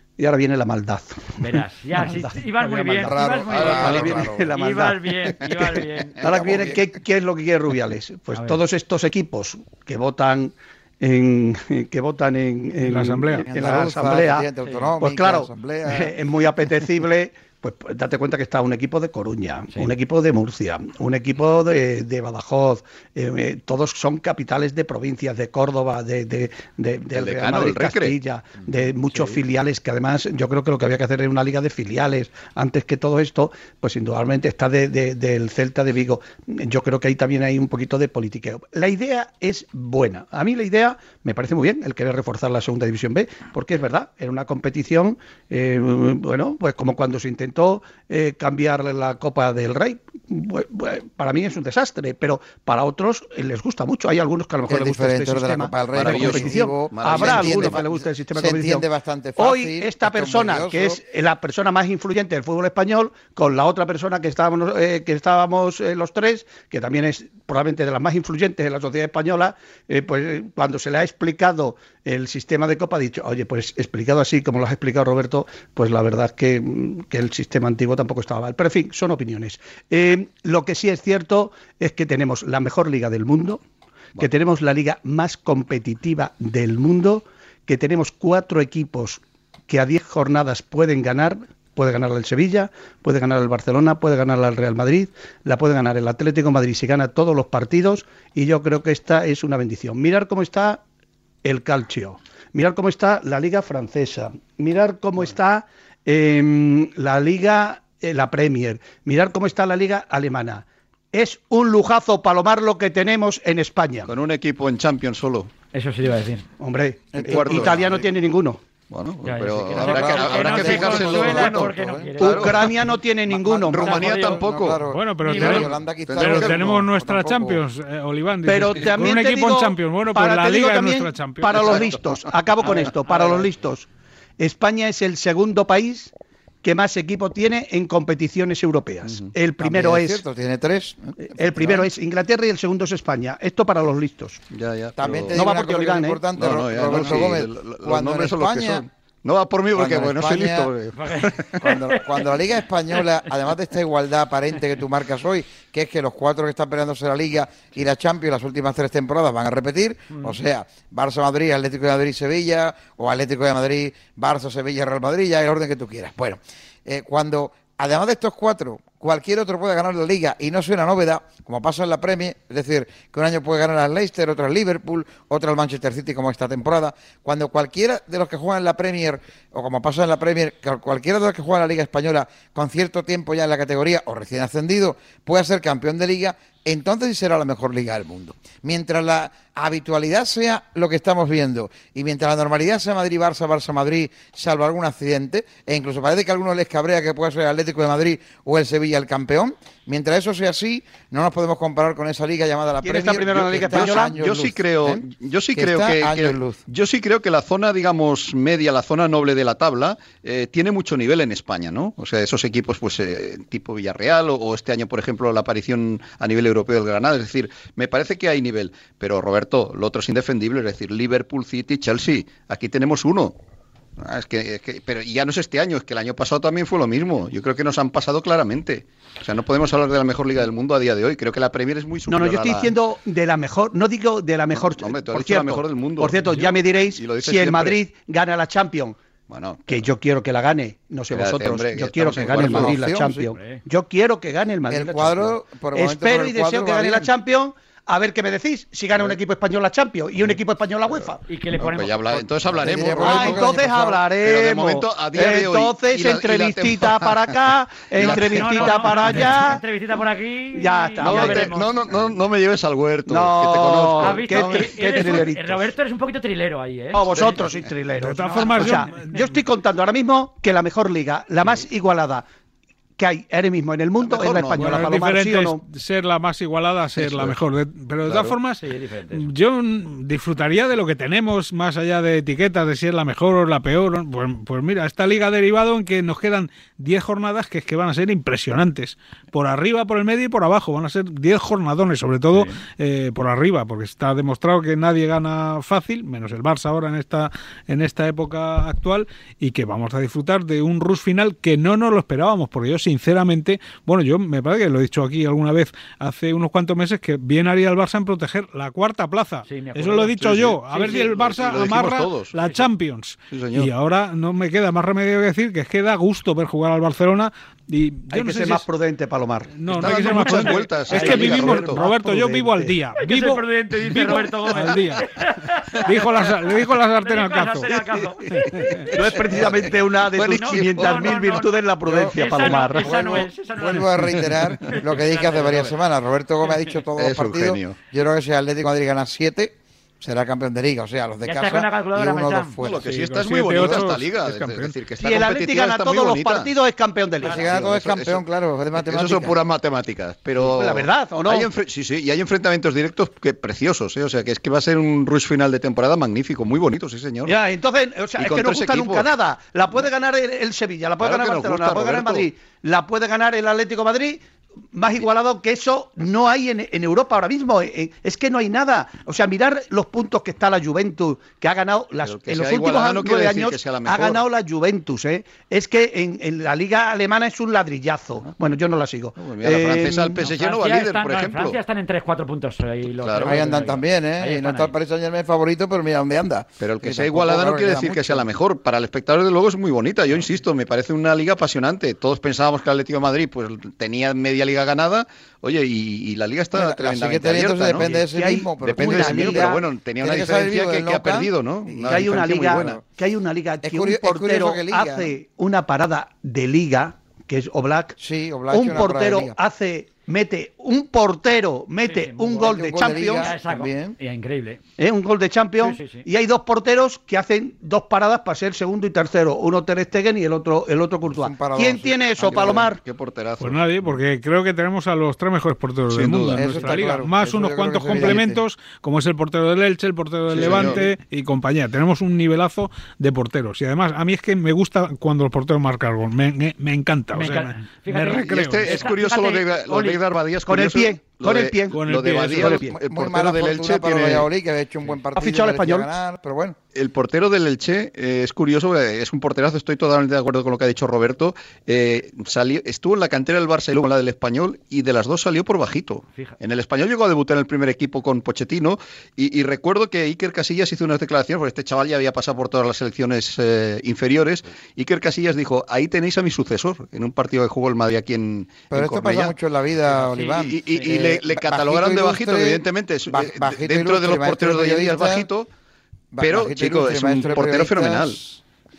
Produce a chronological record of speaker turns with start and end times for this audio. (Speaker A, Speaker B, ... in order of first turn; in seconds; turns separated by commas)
Speaker A: 0.2-3.2, Speaker B: 1.4-6.2, Speaker C: 3.0-4.5, Speaker D: 3.5-4.1, Speaker A: 3.8-14.5, Speaker C: 6.2-6.8, Speaker B: 8.3-8.6, Speaker E: 12.8-13.5, Speaker C: 13.5-16.1, Speaker B: 14.6-14.9, Speaker A: 15.0-58.8, Speaker D: 27.1-28.2, Speaker B: 29.1-29.4, Speaker C: 54.7-61.0, Speaker D: 55.9-57.8, Speaker A: 59.4-83.6, Speaker A: 84.2-100.8, Speaker A: 101.4-114.1, Speaker D: 114.1-115.5, Speaker B: 115.7-116.5, Speaker A: 116.6-118.6, Speaker C: 117.1-118.0, Speaker D: 117.2-117.9, Speaker D: 118.9-122.7, Speaker B: 119.2-122.6, Speaker C: 119.7-122.4, Speaker A: 121.1-121.4, Speaker A: 122.2-124.0, Speaker C: 123.3-127.6, Speaker D: 123.7-124.8, Speaker B: 123.9-124.4, Speaker E: 124.9-131.7, Speaker B: 125.2-125.7, Speaker D: 126.1-126.8, Speaker A: 128.5-133.9, Speaker B: 132.7-133.5, Speaker A: 134.4-140.2, Speaker D: 139.1-139.3, Speaker C: 139.6-141.8, Speaker A: 141.2-144.4, Speaker D: 144.5-145.5, Speaker C: 145.0-148.8, Speaker A: 145.3-146.2, Speaker D: 146.4-151.5, Speaker C: 149.8-150.7, Speaker B: 150.9-152.2, Speaker C: 151.6-205.0, Speaker A: 202.8-204.1, Speaker D: 203.3-223.3, Speaker C: 205.6-206.6, Speaker D: 224.0-232.7, Speaker A: 232.1-239.0, Speaker D: 234.5-237.8, Speaker D: 239.3-239.9, Speaker A: 239.7-251.2, Speaker D: 241.1-242.8, Speaker C: 242.2-243.3, Speaker B: 243.3-243.6, Speaker C: 244.7-247.1, Speaker B: 251.3-252.0, Speaker D: 251.6-253.5, Speaker C: 252.6-254.0, Speaker A: 252.8-259.6, Speaker D: 254.2-257.4, Speaker D: 257.9-259.4, Speaker B: 258.0-261.7, Speaker A: 260.5-261.5, Speaker D: 261.0-265.3, Speaker A: 263.1-265.7, Speaker B: 264.0-267.1, Speaker A: 266.9-272.2, Speaker D: 267.1-267.4, Speaker E: 268.0-269.3, Speaker B: 268.2-268.9, Speaker A: 273.0-275.6, Speaker D: 274.0-274.9, Speaker E: 274.6-318.6, Speaker D: 277.0-277.4, Speaker D: 278.1-278.4, Speaker B: 278.6-279.3, Speaker B: 309.5-310.2, Speaker D: 310.2-312.3, Speaker B: 310.7-311.1, Speaker B: 312.4-312.7, Speaker D: 313.3-313.7, Speaker A: 318.1-322.8, Speaker E: 319.5-325.1, Speaker D: 319.7-321.8, Speaker B: 320.2-321.2, Speaker B: 323.0-326.1, Speaker E: 325.8-327.8, Speaker B: 327.0-328.9, Speaker A: 328.2-333.2, Speaker E: 328.3-328.9, Speaker D: 328.7-331.3, Speaker B: 330.3-335.8, Speaker C: 331.9-342.9, Speaker D: 337.0-337.8, Speaker B: 341.2-342.6, Speaker D: 342.6-346.5, Speaker E: 342.7-344.8, Speaker C: 343.5-343.8, Speaker A: 345.0-347.5, Speaker B: 347.2-347.5, Speaker C: 347.2-349.4, Speaker D: 347.5-348.2, Speaker D: 348.8-357.4, Speaker A: 350.4-351.5, Speaker A: 357.3-364.2, Speaker D: 358.2-359.1, Speaker D: 361.0-362.3, Speaker A: 364.7-380.3, Speaker D: 372.0-374.2, Speaker D: 379.2-381.6, Speaker B: 380.3-384.8, Speaker D: 383.0-383.4, Speaker C: 383.2-388.3, Speaker D: 386.6-397.9, Speaker C: 396.5-401.3, Speaker A: 397.9-399.6, Speaker D: 398.6-402.8, Speaker A: 401.7-408.0, Speaker C: 401.9-402.8, Speaker C: 403.6-405.1, Speaker C: 408.0-409.4, Speaker A: 408.5-413.3, Speaker B: 411.9-412.5, Speaker C: 412.3-414.0, Speaker B: 413.1-414.6, Speaker A: 414.8-422.8, Speaker B: 415.6-416.1, Speaker C: 421.1-422.7, Speaker D: 422.2-424.0, Speaker E: 423.4-438.9, Speaker D: 425.9-426.6, Speaker C: 426.4-428.4, Speaker D: 430.3-430.8, Speaker B: 437.1-440.0, Speaker D: 438.1-444.3, Speaker A: 440.5-442.8, Speaker E: 441.7-442.6, Speaker C: 442.8-446.6, Speaker A: 445.2-445.9, Speaker D: 446.8-469.4, Speaker C: 468.7-475.3, Speaker B: 469.9-470.9, Speaker D: 470.3-475.5, Speaker C: 476.1-478.4, Speaker D: 476.2-478.2